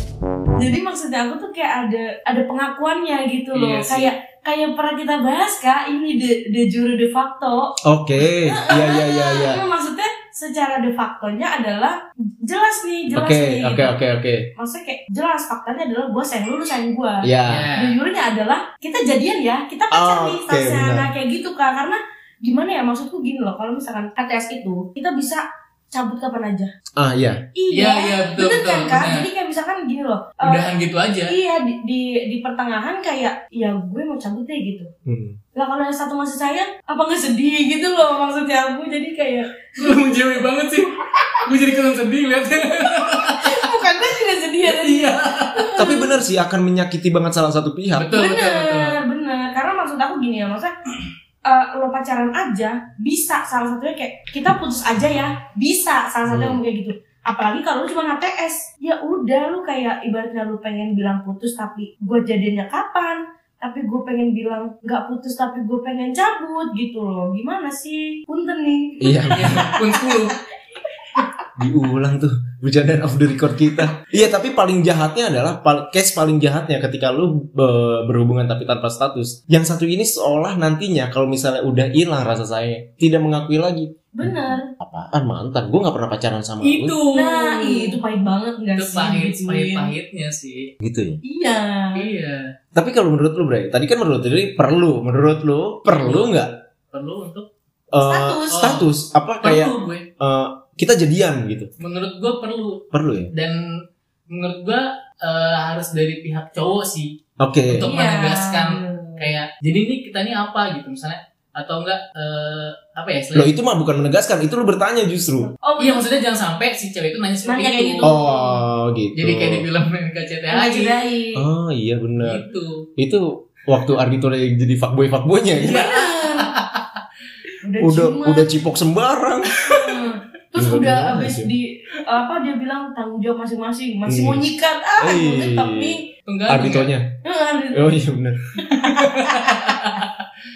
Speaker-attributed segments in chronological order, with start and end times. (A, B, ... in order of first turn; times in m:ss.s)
0:00.6-0:14.0 A
0:03.5-0:04.1 B
0:07.8-0:09.6 C
0:13.1-0:14.5 C
0:14.6-0:26.7 A
0:17.2-0:17.7 C
0:17.5-0:18.0 B
0:19.9-0:21.1 C
0:27.0-0:27.4 C
0:27.6-0:30.7 A
0:27.7-0:29.3 B
0:30.4-0:31.4 B
0:31.3-0:34.9 A
0:35.0-0:35.4 C
0:35.6-0:40.4 A
0:39.8-0:43.7 B
0:41.0-0:41.7 A
0:43.4-0:46.2 A
0:44.6-0:46.0 B
0:45.8-0:48.1 C
0:48.0-0:49.0 B
0:48.1-0:50.7 A
0:51.4-1:10.3 A
0:56.3-0:56.6 C
1:09.0-1:09.7 C
1:09.3-1:10.4 B
1:11.6-1:27.0 C
1:24.1-1:24.7 A
1:26.6-1:28.0 B
1:27.1-1:29.9 A
1:28.8-1:30.7 B
1:30.8-1:31.2 C
1:31.2-1:32.1 A
1:32.0-1:32.5 B
1:32.8-1:36.5 C
1:35.9-1:36.4 B
1:36.9-1:37.5 B
1:37.9-1:41.7 C
1:38.0-1:38.7 A
1:38.5-1:38.9 B
1:39.4-1:40.1 B
1:41.8-1:43.6 B
1:42.9-1:43.3 C
1:44.3-1:47.1 B
1:47.4-1:47.9 C
1:47.7-1:53.6 B
1:47.8-1:49.3 A
1:53.3-1:55.5 C
1:55.5-1:56.1 A
1:55.8-1:58.2 B
1:57.4-1:58.6 A
1:58.0-1:59.6 C
1:59.2-2:01.0 B
2:00.5-2:01.5 A
2:01.4-2:02.4 C
2:02.2-2:02.9 B
2:03.0-2:06.0 C
2:05.6-2:06.5 A
2:05.6-2:07.0 B
2:07.6-2:08.5 A
2:07.8-2:09.6 C
2:09.6-2:10.0 B
2:09.6-2:16.0 A
2:10.6-2:11.5 C
2:14.1-2:14.5 C
2:15.0-2:17.1 C
2:16.3-2:16.9 B
2:17.2-2:18.1 A
2:17.7-2:18.6 C
2:18.6-2:19.8 A
2:18.7-2:20.3 B